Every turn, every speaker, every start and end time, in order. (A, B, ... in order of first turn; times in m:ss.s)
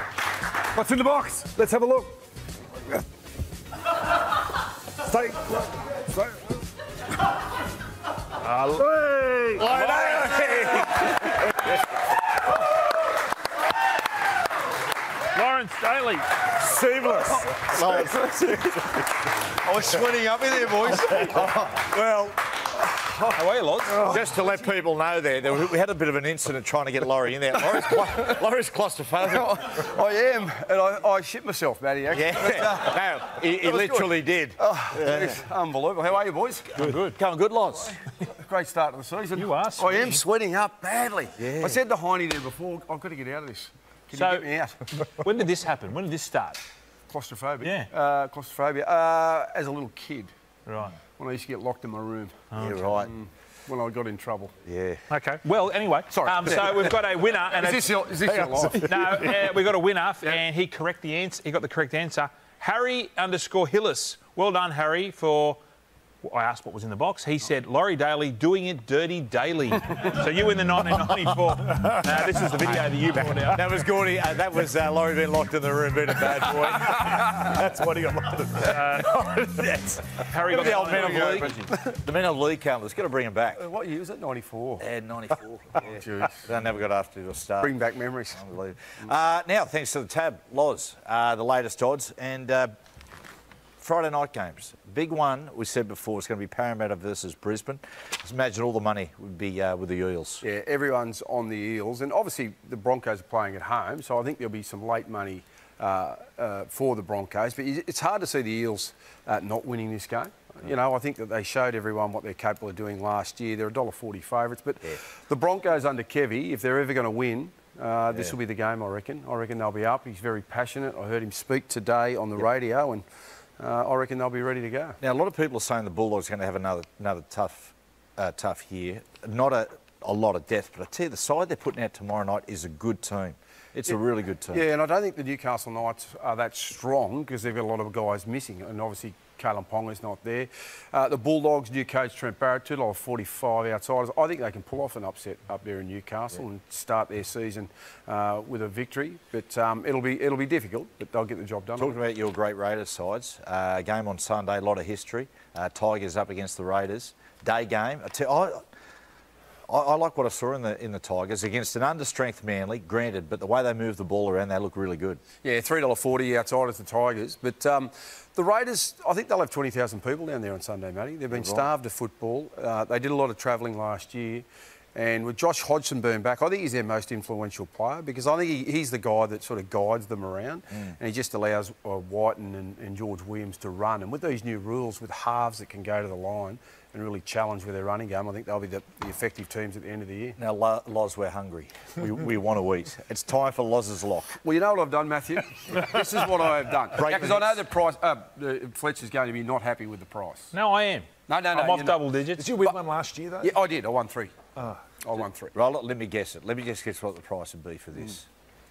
0:00.8-0:02.1 A
0:05.2-0:05.5 A
0:08.4-0:09.0 B
0:09.0-0:09.6 A
0:09.5-0:11.3 C
0:09.6-0:10.3 B
0:15.3-0:16.4 B
0:16.5-0:19.0 C
0:17.6-0:18.1 D
0:19.5-0:21.8 D
0:21.0-0:22.4 C
0:23.3-0:24.1 B
0:23.9-0:29.6 C
0:29.2-0:37.0 D
0:32.1-0:35.4 C
0:36.8-0:37.2 B
0:36.8-0:38.0 C
0:38.3-0:44.9 D
0:39.3-0:40.2 B
0:41.4-0:41.8 C
0:44.1-0:44.4 B
0:45.0-0:46.6 B
0:47.1-0:50.3 D
0:47.6-0:47.9 B
0:50.6-0:51.0 B
0:51.2-0:52.4 D
0:52.5-0:52.8 B
0:52.6-0:53.1 C
0:52.9-0:54.5 D
0:54.6-0:55.0 C
0:55.1-0:58.0 B
0:56.1-0:59.0 D
0:58.7-1:05.6 B
1:06.2-1:13.7 B
1:11.8-1:12.5 C
1:13.4-1:23.6 C
1:18.6-1:19.1 B
1:20.2-1:21.6 B
1:20.5-1:22.0 D
1:23.6-1:24.8 D
1:24.8-1:27.8 C
1:25.8-1:26.5 D
1:27.6-1:28.4 D
1:28.3-1:32.7 C
1:33.8-1:40.4 C
1:40.4-2:03.0 D
2:03.6-2:05.0 D
2:05.0-2:14.6 C
2:14.5-2:32.0 D
2:31.8-2:38.6 C
2:39.7-2:45.2 C
2:45.4-3:10.4 D
2:51.3-2:51.6 C
3:10.4-3:14.4 C
3:14.4-3:20.5 D
3:17.0-3:17.6 C
3:20.5-3:22.5 B
3:21.3-3:22.0 D
3:22.4-3:23.5 A
3:23.4-3:24.3 D
3:25.0-3:25.5 D
3:25.5-3:28.2 C